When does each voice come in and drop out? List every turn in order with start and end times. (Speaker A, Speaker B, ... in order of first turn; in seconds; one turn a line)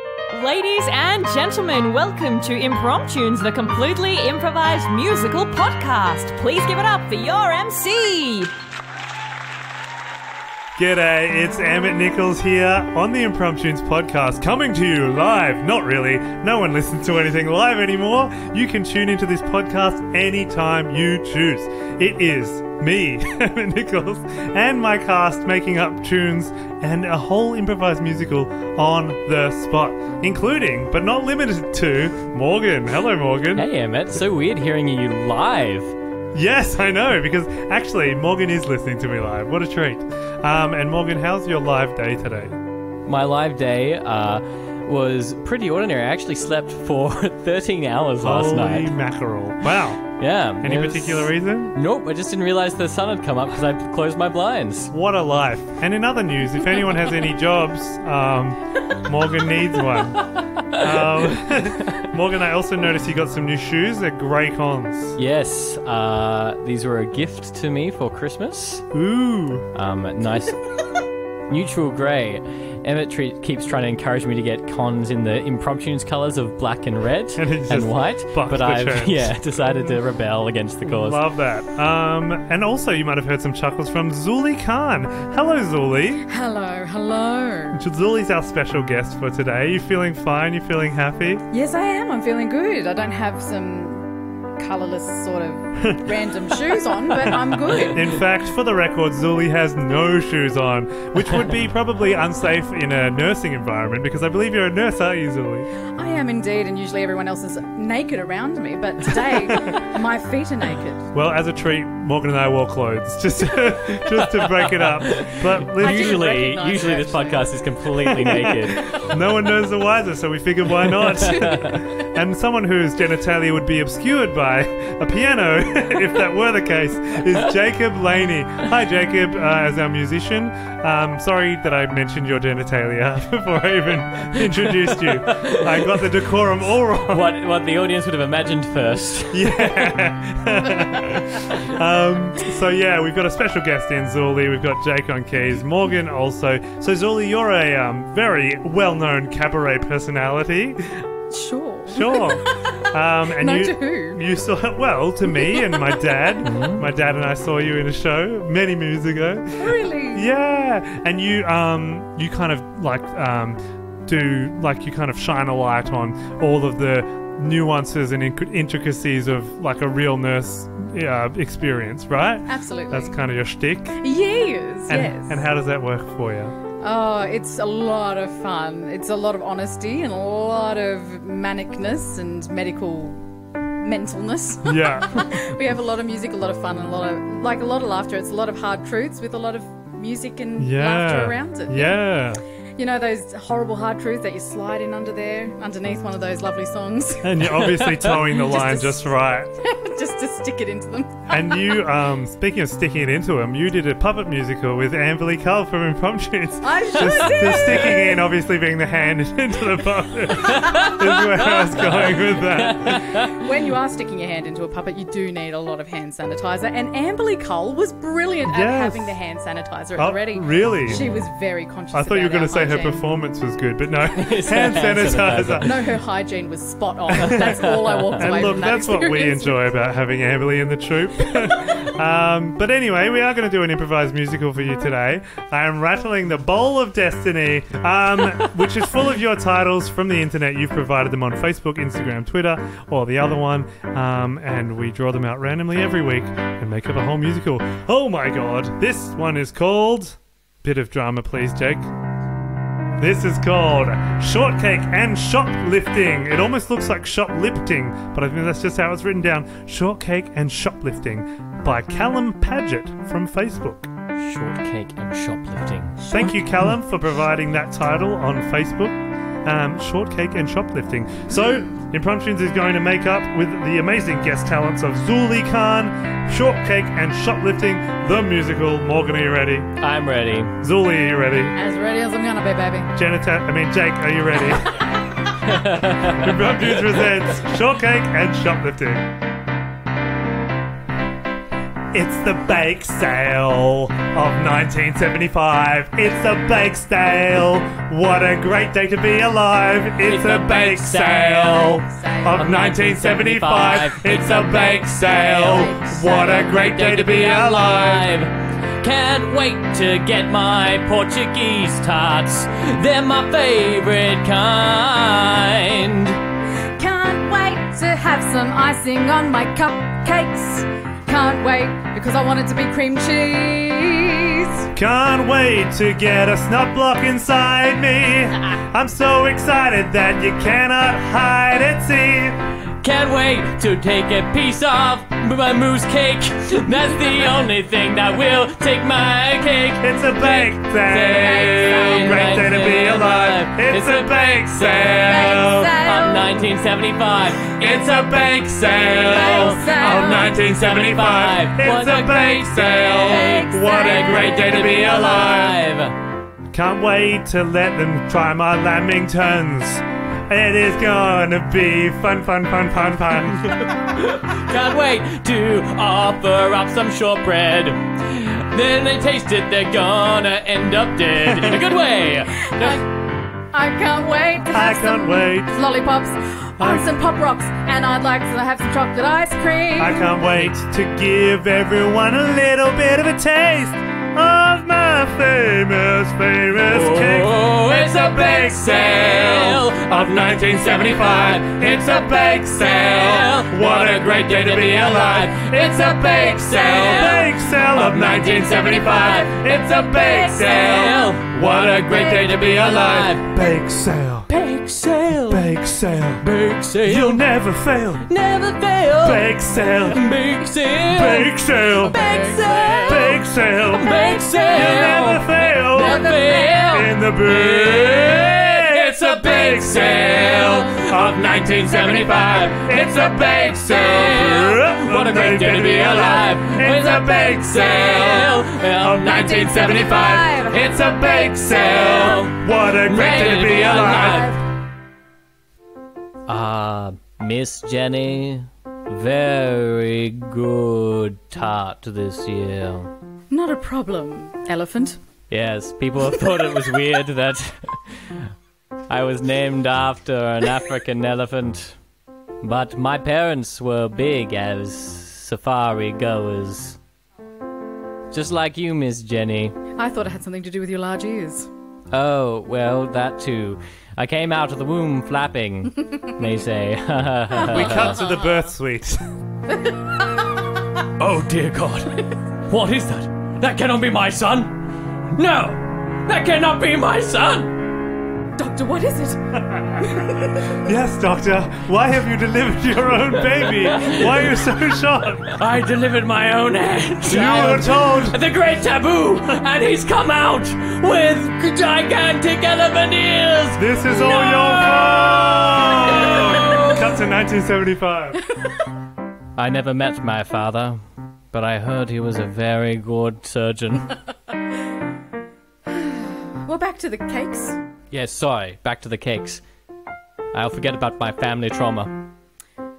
Speaker A: 0.3-8.5
Speaker B: 10.8-33.7
Speaker C: 33.5-35.9
Speaker B: 36.3-42.6
Speaker C: 43.0-48.9
Speaker B: 48.2-50.0
Speaker C: 50.2-54.9
Speaker B: 50.6-51.7
Speaker B: 54.9-65.2
Speaker C: 60.6-62.0
Speaker C: 65.2-68.8
Speaker B: 68.9-69.7
Speaker C: 69.7-70.6
Speaker C: 71.5-81.2
Speaker B: 77.4-79.3
Speaker B: 80.8-86.2
Speaker D: 86.3-87.8
Speaker B: 87.7-91.4
Speaker D: 91.5-98.1
Speaker B: 95.8-96.1
Speaker B: 97.9-105.7
Speaker D: 105.9-111.1
Speaker B: 109.2-109.8
Speaker B: 111.1-116.3
Speaker C: 114.1-118.9
Speaker D: 115.7-117.5
Speaker B: 118.0-137.2
Speaker D: 118.8-119.1
Speaker C: 120.9-121.8
Speaker C: 134.4-136.1
Speaker C: 137.0-139.9
Speaker B: 139.3-151.0
Speaker D: 151.3-152.8
Speaker B: 151.9-174.0
Speaker D: 153.3-154.2
Speaker D: 155.3-155.9
Speaker C: 156.4-156.8
Speaker D: 159.6-160.3
Speaker D: 172.5-173.1
Speaker D: 174.0-175.4
Speaker B: 174.9-176.5
Speaker D: 176.8-183.2
Speaker D: 183.8-192.0
Speaker B: 184.6-185.4
Speaker B: 190.6-192.4
Speaker D: 192.8-197.6
Speaker B: 197.2-199.5
Speaker C: 197.8-198.2
Speaker D: 198.3-201.6
Speaker B: 201.3-213.0
Speaker D: 206.6-208.2
Speaker C: 207.4-207.8
Speaker C: 210.4-213.3
Speaker D: 213.1-223.0
Speaker B: 218.4-219.2
Speaker B: 219.9-221.1
Speaker B: 221.9-225.7
Speaker C: 224.1-225.9
Speaker D: 225.6-229.6
Speaker B: 227.1-251.9
Speaker C: 227.3-228.5
Speaker B: 253.0-263.9
Speaker C: 264.2-266.0
Speaker B: 266.1-279.7
Speaker C: 279.8-280.5
Speaker B: 280.6-281.5
Speaker D: 281.6-282.9
Speaker B: 282.9-284.9
Speaker C: 285.4-286.9
Speaker B: 286.0-289.1
Speaker B: 291.9-308.1
Speaker C: 300.1-316.2
Speaker D: 301.8-302.4
Speaker D: 305.3-306.2
Speaker D: 316.7-324.6
Speaker B: 324.7-332.4
Speaker C: 332.8-355.9
Speaker B: 339.8-345.8
Speaker D: 341.2-342.4
Speaker D: 345.0-346.4
Speaker B: 347.6-355.6
Speaker D: 349.0-350.4
Speaker D: 352.9-354.4
Speaker B: 356.5-363.6
Speaker C: 363.9-372.8
Speaker B: 371.3-371.6
Speaker D: 372.4-372.8
Speaker D: 373.5-380.1
Speaker B: 374.5-375.6
Speaker B: 376.6-376.9
Speaker B: 379.8-404.3
Speaker C: 386.7-403.2
Speaker D: 400.1-400.7
Speaker C: 404.3-405.6
Speaker B: 405.1-406.2
Speaker C: 406.2-407.4
Speaker B: 406.8-408.1
Speaker C: 408.0-409.3
Speaker B: 409.0-410.1
Speaker C: 409.9-434.3
Speaker B: 410.8-412.0
Speaker D: 411.8-413.2
Speaker B: 412.8-413.9
Speaker D: 413.8-414.9
Speaker B: 414.5-434.4
Speaker D: 415.8-416.6
Speaker D: 429.4-432.3
Speaker D: 433.6-434.4
Speaker C: 436.3-442.9
Speaker D: 443.3-445.0
Speaker C: 445.3-448.3
Speaker C: 448.9-451.8
Speaker C: 452.4-456.8
Speaker C: 458.1-459.6
Speaker D: 459.8-461.5
Speaker C: 461.9-468.0
Speaker D: 467.3-468.1
Speaker B: 467.5-469.0
Speaker D: 469.5-470.1
Speaker C: 471.0-474.6
Speaker C: 475.1-477.5
Speaker D: 478.4-479.2
Speaker B: 479.5-479.8
Speaker D: 479.8-480.6
Speaker B: 480.6-485.4
Speaker C: 483.5-484.3
Speaker C: 485.3-496.9
Speaker B: 487.0-488.1
Speaker B: 493.6-498.2
Speaker C: 499.4-500.8
Speaker C: 501.3-504.0
Speaker D: 505.8-507.6
Speaker C: 507.9-509.4
Speaker C: 510.3-512.1